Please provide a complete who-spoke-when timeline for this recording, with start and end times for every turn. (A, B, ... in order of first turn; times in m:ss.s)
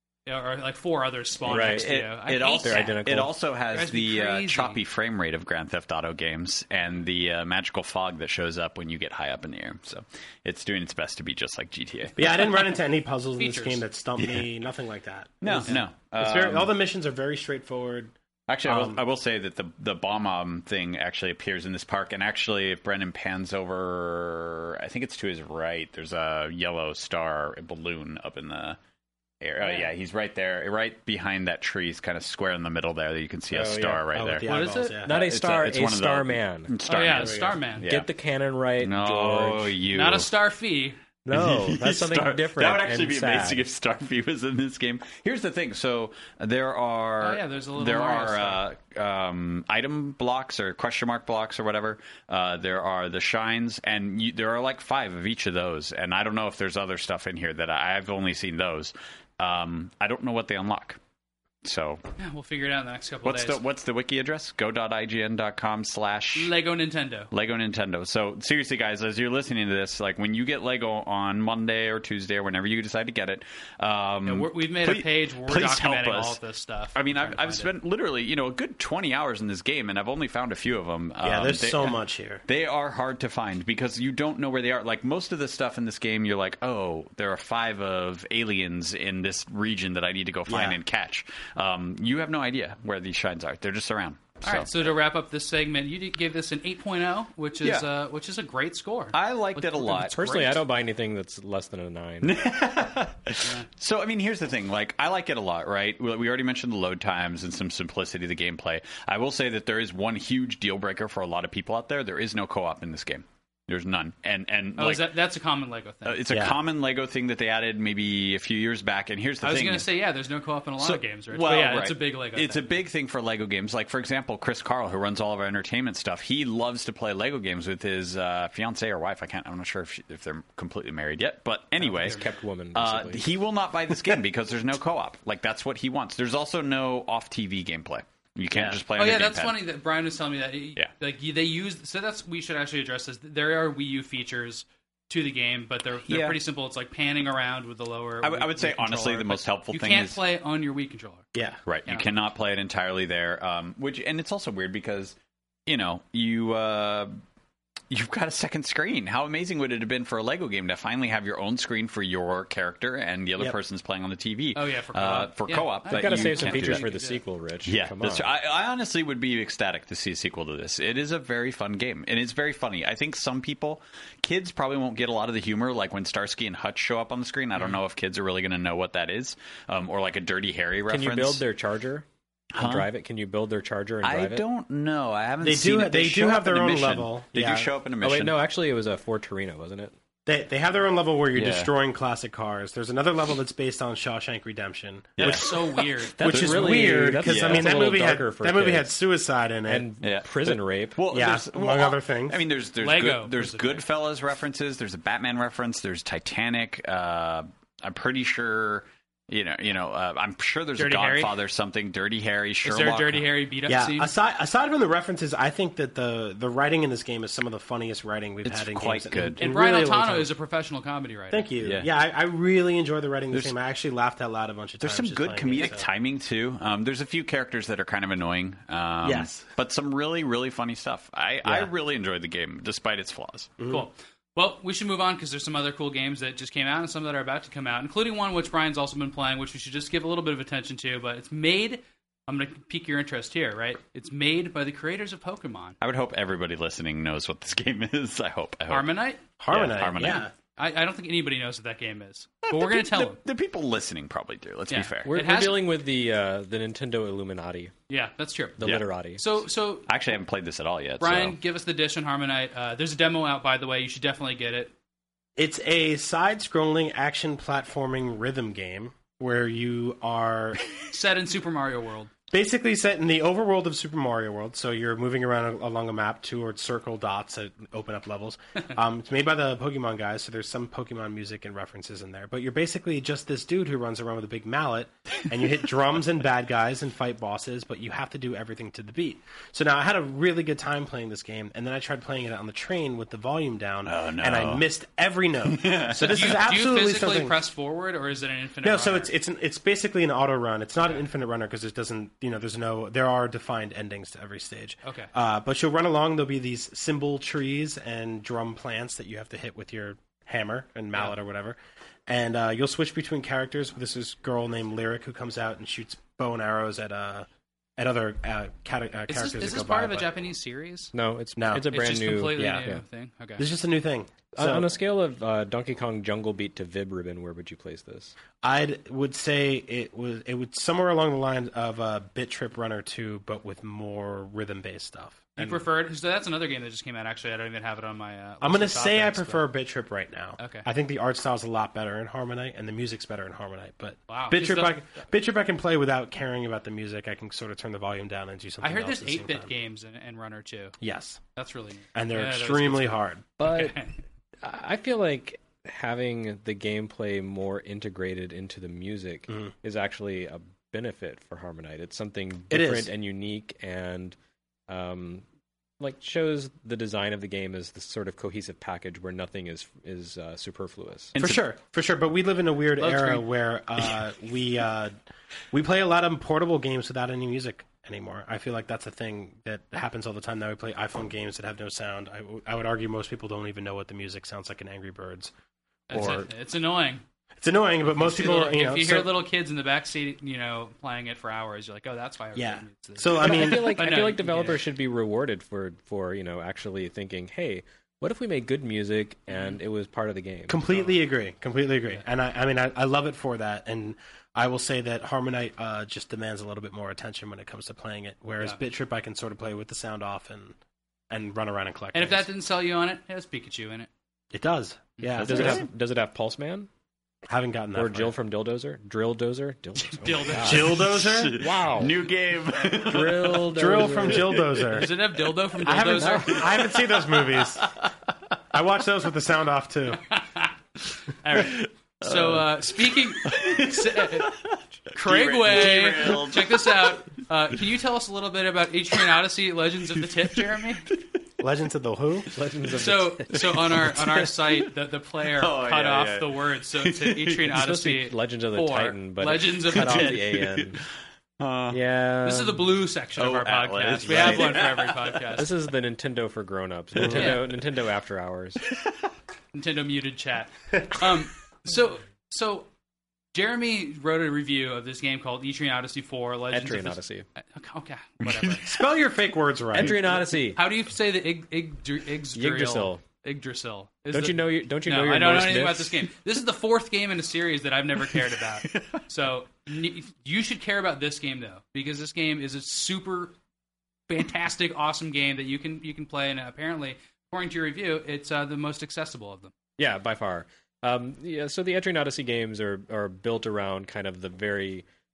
0:00.2-0:03.0 A
0:01.4-0:12.6 B
0:01.5-0:01.9 C
0:02.6-0:03.3 C
0:03.7-0:04.8 A
0:12.2-0:18.1 D
0:13.4-0:13.8 A
0:14.2-0:14.4 B
0:15.4-0:16.7 B
0:18.5-0:28.8 B
0:18.6-0:19.0 D
0:29.4-0:34.4 B
0:33.5-0:34.0 C
0:34.1-0:35.2 D
0:34.4-0:35.0 A
0:35.0-0:36.7 C
0:35.0-0:38.1 B
0:36.9-0:37.8 A
0:37.1-0:37.6 D
0:37.8-0:39.8 C
0:38.8-0:40.3 B
0:39.9-0:41.0 A
0:41.2-0:43.7 C
0:41.3-1:01.0 B
0:47.2-0:48.6 A
1:01.6-1:02.0 B
1:02.2-1:03.6 A
1:03.2-1:06.5 B
1:06.3-1:07.3 A
1:07.3-1:16.4 B
1:14.2-1:17.7 A
1:16.9-1:34.7 B
1:21.2-1:22.4 D
1:30.5-1:30.8 D
1:34.4-1:40.6 A
1:39.1-1:40.1 B
1:40.1-1:42.4 C
1:42.2-1:55.1 B
1:54.8-1:56.2 A
1:56.0-1:59.9 B
1:56.3-1:56.6 D
1:59.4-2:02.8 A
2:00.8-2:19.6 B
2:11.8-2:13.3 C
2:18.9-2:31.3 A
2:26.1-2:26.4 B
2:28.2-2:30.2 B
2:31.6-2:35.1 B
2:35.7-2:37.1 B
2:37.9-2:46.8 B
2:44.5-2:47.2 A
2:45.9-2:48.3 C
2:47.6-3:01.4 B
3:00.9-3:04.4 C
3:02.5-3:02.9 B
3:04.0-3:08.4 B
3:05.4-3:07.7 D
3:08.0-3:09.9 C
3:10.2-3:15.6 D
3:11.3-3:11.7 B
3:15.2-3:17.9 B
3:15.2-3:16.2 A
3:16.2-3:18.9 C
3:16.2-3:19.9 D
3:19.6-3:21.0 C
3:20.0-3:33.3 B
3:21.1-3:22.4 D
3:22.8-3:23.8 A
3:30.8-3:31.3 A
3:32.6-3:34.1 A
3:33.7-3:40.3 D
3:38.4-3:39.4 B
3:39.4-3:41.5 A
3:41.3-3:45.8 D
3:41.6-3:41.9 B
3:44.8-3:53.5 B
3:49.0-3:49.4 D
3:51.4-3:51.7 D
3:53.6-3:53.8 D
3:53.7-4:05.8 A
4:05.8-4:08.9 B
4:08.7-4:09.2 A
4:09.4-4:10.3 D
4:09.5-4:10.3 B
4:10.0-4:13.2 A
4:12.4-4:15.1 B
4:14.7-4:15.6 A
4:15.0-4:17.7 C
4:17.9-4:18.6 A
4:18.6-4:19.2 C
4:19.2-4:19.8 A
4:19.9-4:21.4 B
4:21.0-4:24.7 A
4:25.4-4:30.6 D
4:30.8-4:32.1 A
4:32.3-4:57.4 D
4:53.8-4:54.6 B
4:55.4-4:56.4 B
4:56.0-4:59.1 A
4:58.6-5:20.1 D
5:04.8-5:05.1 A
5:19.1-5:20.9 A
5:20.9-5:22.8 C
5:21.4-5:21.7 D
5:21.6-5:23.4 A
5:22.4-5:22.6 D
5:23.4-5:24.7 D
5:24.3-5:28.1 C
5:28.4-5:35.6 D
5:35.4-5:39.4 A
5:38.4-5:49.5 D
5:40.4-5:40.6 A
5:44.1-5:44.8 A
5:48.6-5:50.8 A
5:50.8-5:51.2 D
5:51.4-5:54.0 A
5:51.9-5:53.3 D
5:53.4-5:53.8 C
5:54.4-6:04.2 C
6:02.5-6:02.9 D
6:04.7-6:05.2 C
6:05.8-6:11.1 C
6:11.1-6:11.4 B
6:11.2-6:14.9 D
6:12.8-6:13.2 A
6:15.5-6:25.3 D
6:25.9-6:27.0 A
6:25.9-6:26.3 D
6:27.4-6:29.1 D
6:28.0-6:34.6 A
6:32.4-6:33.8 D
6:33.2-6:40.6 C
6:39.3-6:39.6 A
6:40.5-6:50.6 D
6:40.7-6:41.0 A
6:51.1-6:52.3 D
6:51.9-6:53.9 A
6:54.3-6:55.6 D
6:55.2-6:55.6 B
6:55.2-6:56.7 C
6:57.3-6:58.1 D
6:57.7-7:02.0 C
6:59.8-7:00.8 A
7:00.3-7:01.3 D
7:00.7-7:03.5 B
7:02.8-7:04.5 C
7:03.5-7:04.9 D
7:04.2-7:04.4 B
7:04.7-7:06.5 A
7:05.6-7:07.7 D
7:05.9-7:06.4 C
7:06.3-7:07.8 B
7:08.5-7:10.0 D
7:10.1-7:14.3 A
7:11.4-7:12.7 B
7:13.2-7:17.0 B
7:14.9-7:20.9 A
7:20.4-7:21.0 B
7:21.4-7:22.3 D
7:22.3-7:24.3 C
7:22.7-7:30.2 A
7:25.4-7:27.5 B
7:27.5-7:30.8 C
7:29.7-7:30.9 B
7:31.4-7:31.8 B
7:31.7-7:32.7 C
7:32.2-7:35.5 A
7:33.2-7:35.2 B
7:34.0-7:34.6 C
7:35.3-7:38.6 C
7:37.0-7:37.3 B
7:37.1-7:37.4 A
7:39.5-7:42.7 A
7:43.3-7:48.7 A
7:46.5-7:47.2 C
7:48.2-7:48.8 B
7:48.6-7:50.2 D
7:49.7-7:50.6 C
7:50.5-8:03.3 A
7:52.3-7:53.0 C
7:54.1-7:56.1 C
7:58.6-7:59.0 B
8:04.1-8:09.5 A
8:09.8-8:14.8 C